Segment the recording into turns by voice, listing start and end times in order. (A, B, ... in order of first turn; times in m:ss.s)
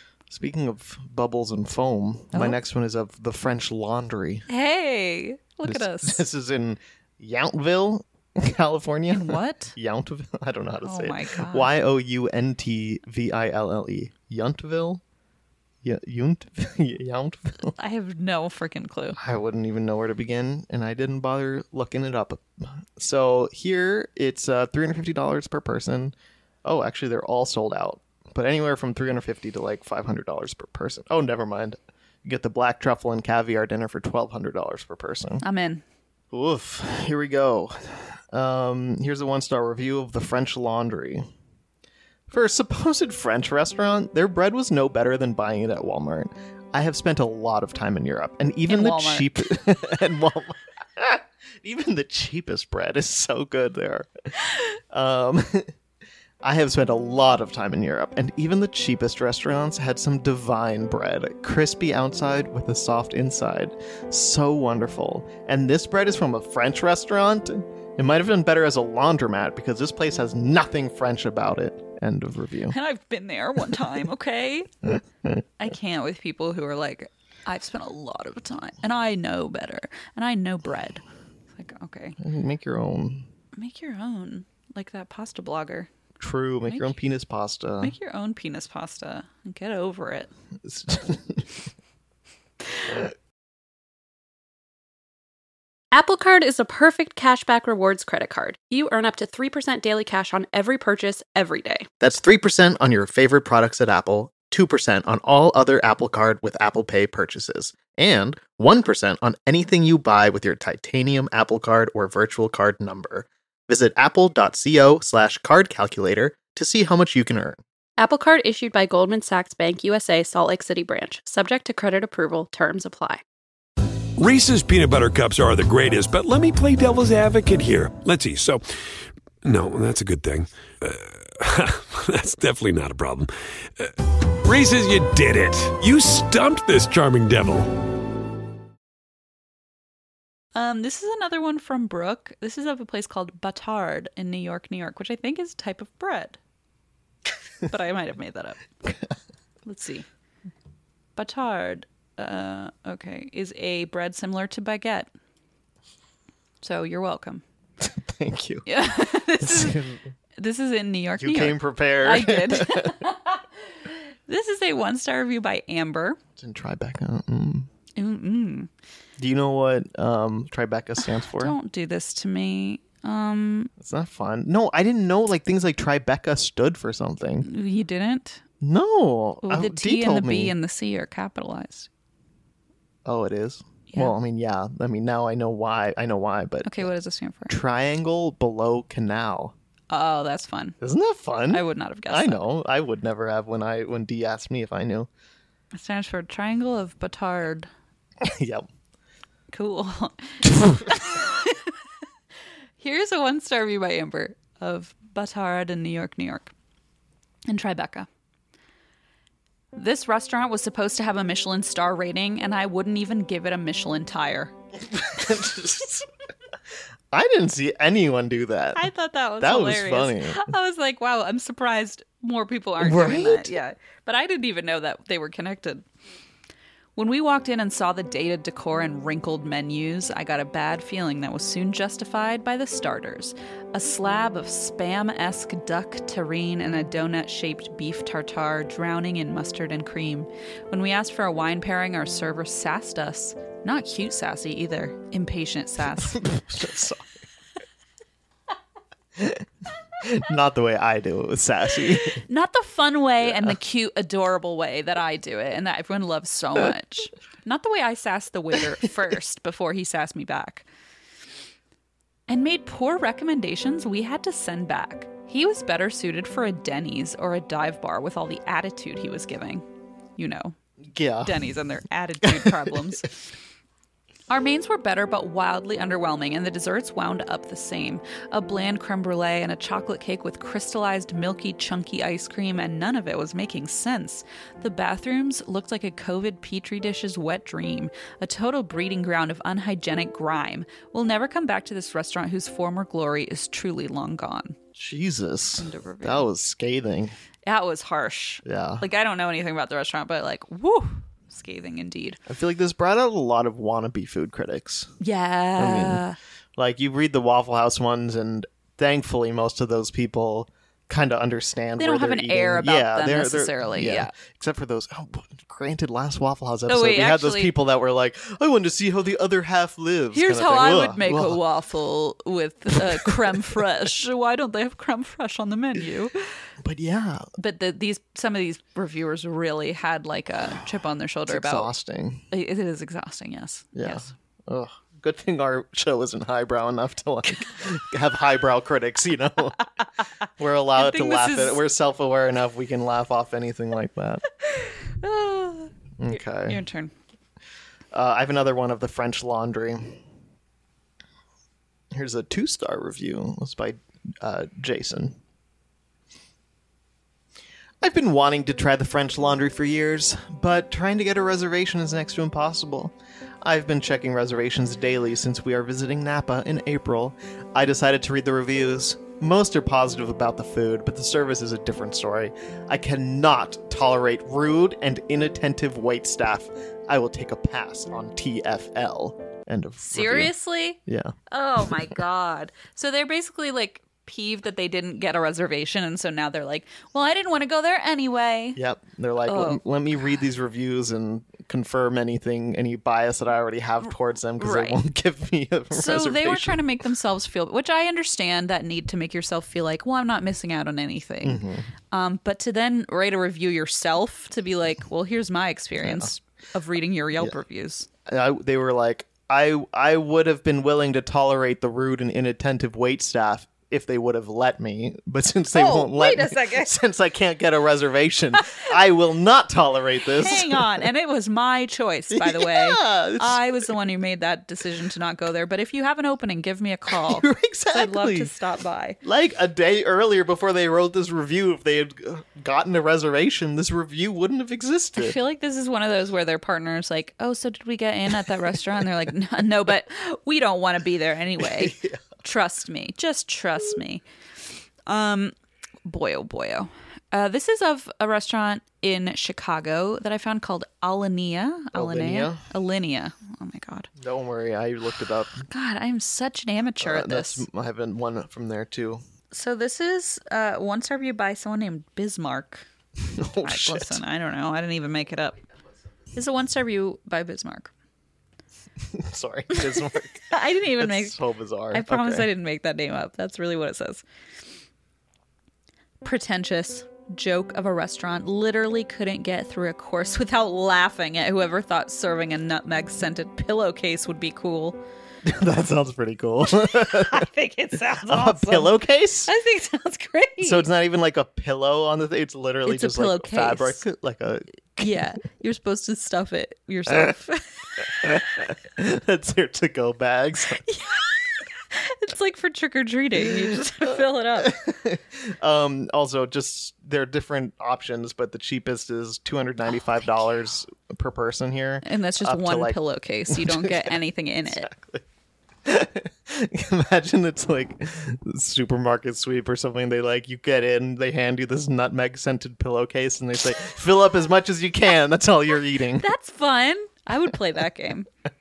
0:00.3-0:04.4 A
0:02.3-0:02.6 B
0:04.5-0:06.2 B
0:05.6-0:15.0 A
0:09.1-0:09.8 B
0:10.8-0:11.7 B
0:15.8-0:17.7 A
0:17.8-0:19.2 B
0:19.2-0:35.4 A
0:35.4-0:35.8 B
0:36.3-0:41.2 A
0:42.3-0:55.7 A
0:48.7-0:49.5 B
0:56.4-1:12.7 A
1:12.7-1:15.0 B
1:15.6-1:21.0 B
1:21.5-1:22.2 B
1:22.2-1:23.3 A
1:23.5-1:25.9 B
1:26.2-1:27.9 A
1:26.7-1:26.9 B
1:27.8-1:30.3 B
1:30.6-1:31.6 A
1:35.9-1:41.9 C
1:42.0-1:57.6 A
1:58.0-2:03.2 C
2:04.2-2:08.7 D
2:09.4-2:17.8 D
2:20.5-2:26.4 B
2:27.6-2:28.6 B
2:29.6-2:30.0 B
2:31.2-2:35.1 B
2:36.6-2:37.4 B
2:37.8-2:38.6 A
2:38.6-2:39.8 B
2:39.4-2:40.1 A
2:40.4-2:46.2 B
2:41.2-2:43.0 A
2:46.4-2:47.7 A
2:48.0-2:48.7 B
2:49.2-2:51.5 A
2:51.2-2:53.7 B
2:53.8-2:57.5 A
2:57.4-2:58.4 B
2:58.6-3:00.5 A
2:59.4-3:01.9 B
3:03.0-3:06.9 A
3:03.9-3:04.2 B
3:06.6-3:07.6 B
3:07.5-3:09.5 A
3:09.9-3:10.8 B
3:10.8-3:15.1 A
3:11.5-3:12.4 B
3:15.7-3:17.7 B
3:18.2-3:18.6 A
3:19.5-3:21.7 B
3:22.8-3:26.5 B
3:27.5-3:28.1 B
3:29.7-3:34.5 B
3:34.8-3:36.1 A
3:37.1-3:38.9 A
3:38.7-3:45.8 B
3:39.4-3:40.5 A
3:42.8-3:43.5 A
3:47.0-4:06.2 B
4:06.0-4:07.2 A
4:09.2-4:09.4 A
4:10.0-4:12.2 A
4:11.9-4:20.6 B
4:13.2-4:13.5 A
4:22.3-4:30.6 B
4:30.9-4:31.5 A
4:31.2-4:33.2 B
4:32.2-4:32.8 A
4:34.3-4:54.6 B
4:54.7-4:57.1 A
4:55.6-4:56.3 B
4:57.4-5:02.2 B
4:58.4-4:58.8 A
5:02.3-5:05.0 A
5:05.0-5:06.2 B
5:05.6-5:06.0 A
5:06.6-5:21.4 A
5:11.8-5:14.1 B
5:16.7-5:17.5 B
5:20.1-5:26.4 B
5:22.8-5:23.6 A
5:26.6-5:27.3 A
5:27.4-5:31.7 B
5:31.3-5:32.2 A
5:32.3-5:34.1 B
5:33.7-5:39.7 A
5:40.4-5:44.2 A
5:40.7-5:41.6 B
5:44.4-5:46.9 B
5:46.0-5:46.6 A
5:47.9-5:50.0 A
5:51.9-5:55.2 A
5:57.8-6:20.3 A
6:19.8-6:20.8 B
6:20.8-6:21.8 A
6:21.3-6:28.6 B
6:28.6-6:36.6 A
6:29.2-6:29.6 B
6:34.4-6:34.8 B
6:35.7-6:47.9 B
6:41.2-6:41.7 A
6:45.8-6:46.1 A
6:48.0-7:00.9 A
6:55.5-6:56.8 B
7:00.0-7:09.0 B
7:02.1-7:03.4 A
7:06.9-7:08.3 A
7:09.0-7:15.2 A
7:15.0-7:24.0 B
7:21.4-7:22.0 A
7:24.9-7:33.9 B
7:31.7-7:32.4 A
7:34.0-7:35.4 A
7:35.5-7:37.4 B
7:36.8-7:39.0 A
7:39.3-7:42.6 B
7:43.0-7:44.0 A
7:43.4-7:45.4 B
7:46.1-7:47.7 B
7:48.9-7:52.3 A
7:49.5-7:51.2 B
7:51.7-7:54.0 B
7:56.0-8:04.8 B
8:05.2-8:07.3 A
8:06.6-8:10.7 B
8:07.9-8:09.3 A
8:10.4-8:15.1 A
8:12.6-8:13.8 B
8:14.8-8:18.2 B
8:18.0-8:20.6 A
8:20.6-8:24.6 B
8:23.9-8:35.0 A
8:31.8-8:34.7 B
8:35.6-8:46.1 A
8:46.0-8:48.1 B